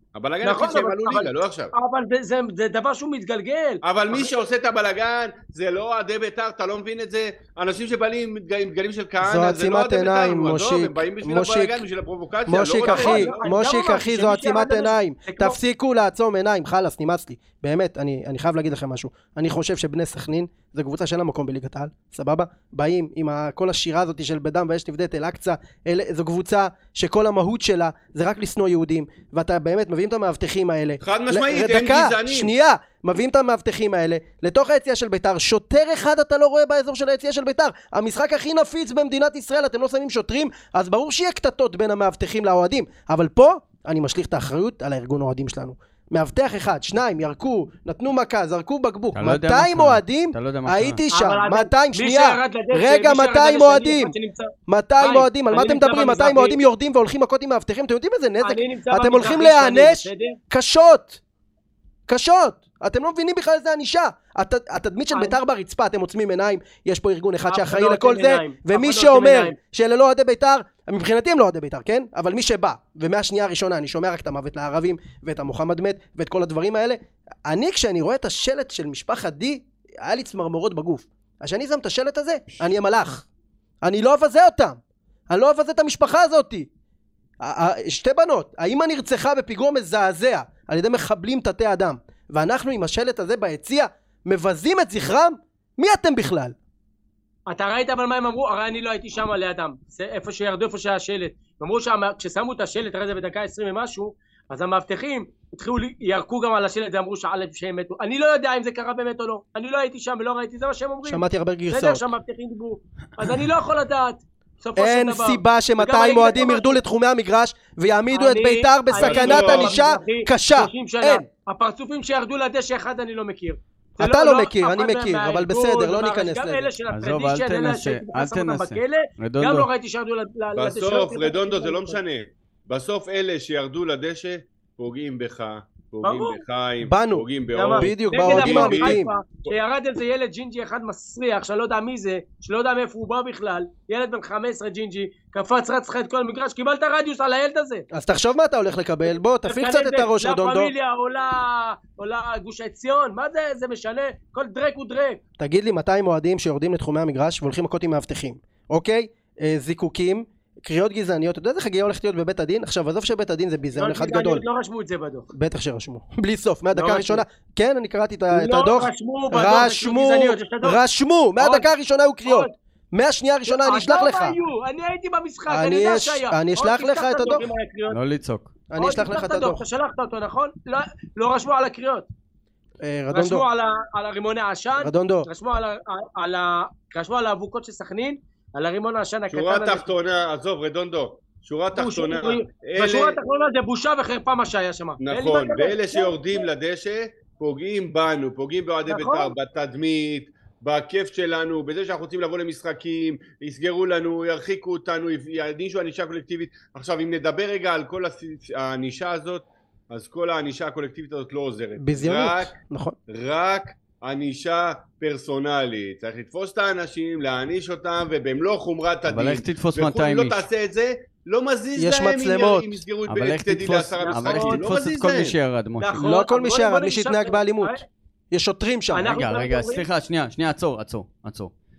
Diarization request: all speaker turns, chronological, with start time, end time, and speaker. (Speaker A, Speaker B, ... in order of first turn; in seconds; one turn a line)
Speaker A: 0.1-1.7
Speaker B: 0.4-4.3
Speaker A: 3.8-13.5
Speaker C: 9.2-11.8
Speaker C: 12.5-54.1
Speaker B: 12.8-15.6
Speaker A: 31.0-32.5
Speaker D: 49.1-51.0
Speaker B: 51.1-56.6
Speaker C: 54.7-61.2
Speaker B: 58.4-60.4
Speaker C: 62.1-83.3
Speaker B: 67.5-69.6
Speaker C: 83.8-86.7
Speaker C: 87.4-96.5
Speaker B: 97.5-116.8
Speaker C: 111.0-112.1
Speaker C: 114.8-121.2
Speaker B: 118.1-132.0
Speaker A: 119.0-119.8
Speaker C: 124.0-126.7
Speaker D: 126.9-129.7
Speaker A: 130.6-139.0
Speaker B: 136.0-136.4
Speaker C: 136.8-139.1
Speaker B: 137.5-147.9
Speaker C: 147.9-150.7
Speaker B: 149.4-155.2
Speaker C: 155.4-164.4
Speaker B: 163.7-165.3
Speaker C: 165.3-174.4
Speaker B: 166.8-167.2
Speaker B: 168.3-170.8
Speaker B: 171.4-171.7
Speaker B: 172.2-172.5
Speaker B: 173.4-178.0
Speaker C: 175.5-177.5
Speaker D: 177.9-178.5
Speaker C: 178.7-179.6
Speaker B: 178.8-182.1
Speaker C: 182.8-183.4
Speaker B: 183.1-189.9
Speaker C: 184.8-185.3
Speaker A: 189.3-193.2
Speaker B: 191.8-196.1
Speaker A: 195.0-212.5
Speaker B: 198.9-199.3
Speaker C: 211.8-213.0
Speaker A: 213.1-225.3
Speaker D: 219.1-220.4
Speaker C: 221.8-222.8
Speaker D: 223.1-226.1
Speaker B: 224.0-224.7
Speaker B: 225.8-227.8
Speaker C: 225.9-229.2
Speaker B: 228.9-229.9
Speaker D: 229.1-231.5